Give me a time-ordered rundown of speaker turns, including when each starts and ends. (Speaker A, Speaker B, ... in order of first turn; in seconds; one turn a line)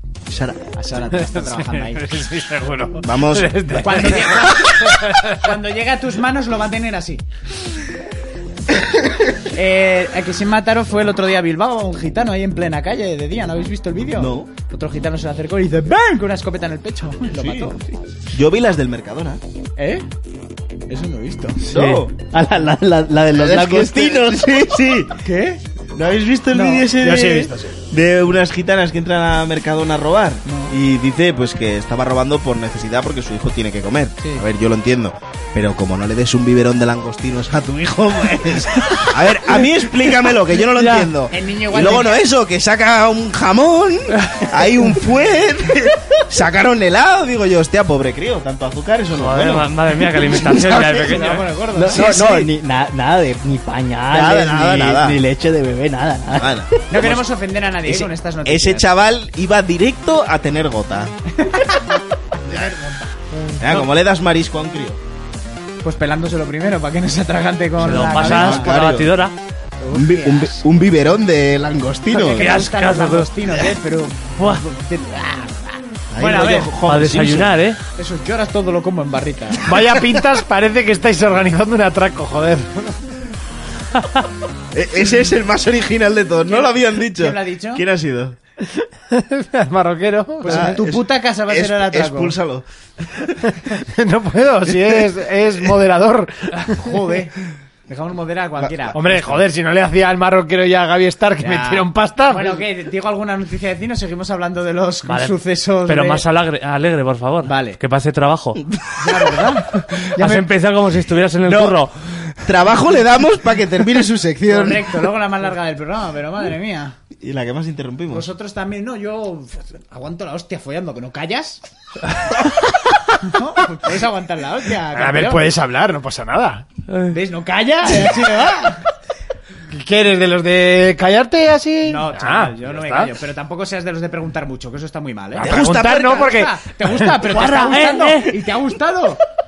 Speaker A: 0.3-0.6
Speaker B: 0.8-2.2
Speaker C: 1.3-5.3
Speaker A: 3.0-4.1
Speaker B: 3.8-7.2
Speaker B: 9.5-17.8
Speaker A: 14.2-14.5
Speaker A: 17.4-17.8
Speaker A: 18.3-19.4
Speaker B: 19.8-20.1
Speaker B: 20.9-21.6
Speaker D: 21.6-22.1
Speaker A: 21.7-22.1
Speaker E: 22.2-24.4
Speaker A: 23.3-25.2
Speaker B: 25.2-25.6
Speaker A: 25.9-51.1
Speaker B: 26.5-26.9
Speaker C: 26.9-27.7
Speaker B: 30.5-30.8
Speaker D: 40.8-41.1
Speaker B: 41.3-42.2
Speaker D: 49.1-51.5
Speaker B: 50.9-52.0
Speaker E: 51.8-56.7
Speaker A: 51.8-52.5
Speaker A: 54.1-55.2
Speaker A: 56.4-57.2
Speaker B: 56.9-58.9
Speaker A: 57.9-61.1
Speaker B: 61.4-61.8
Speaker B: 62.5-63.1
Speaker A: 62.5-62.7
Speaker A: 63.6-65.0
Speaker B: 65.8-68.7
Speaker D: 67.8-69.4
Speaker A: 67.8-69.1
Speaker B: 69.8-70.7
Speaker A: 69.9-72.5
Speaker B: 72.2-75.6
Speaker D: 72.2-73.3
Speaker D: 74.4-74.6
Speaker A: 76.1-77.5
Speaker B: 76.2-76.7
Speaker D: 76.9-77.8
Speaker B: 78.0-79.6
Speaker C: 79.6-83.0
Speaker A: 84.7-88.4
Speaker B: 86.5-87.8
Speaker C: 89.1-90.7
Speaker B: 90.4-92.3
Speaker A: 90.5-92.7
Speaker C: 93.8-97.1
Speaker B: 96.5-97.3
Speaker B: 97.9-99.4
Speaker A: 98.6-99.0
Speaker C: 98.9-102.6
Speaker B: 101.4-106.2
Speaker D: 105.1-105.3
Speaker D: 105.9-108.6
Speaker B: 107.4-107.8
Speaker A: 108.7-109.5
Speaker B: 109.0-110.4
Speaker D: 110.0-112.3
Speaker A: 111.4-111.8
Speaker A: 112.5-115.1
Speaker B: 114.5-117.0
Speaker A: 117.2-118.3
Speaker B: 118.1-121.6
Speaker B: 123.2-125.4
Speaker C: 124.9-126.7
Speaker B: 127.1-128.8
Speaker C: 129.7-133.1
Speaker B: 131.8-139.2
Speaker A: 135.4-136.3
Speaker C: 135.4-136.5
Speaker D: 137.3-138.3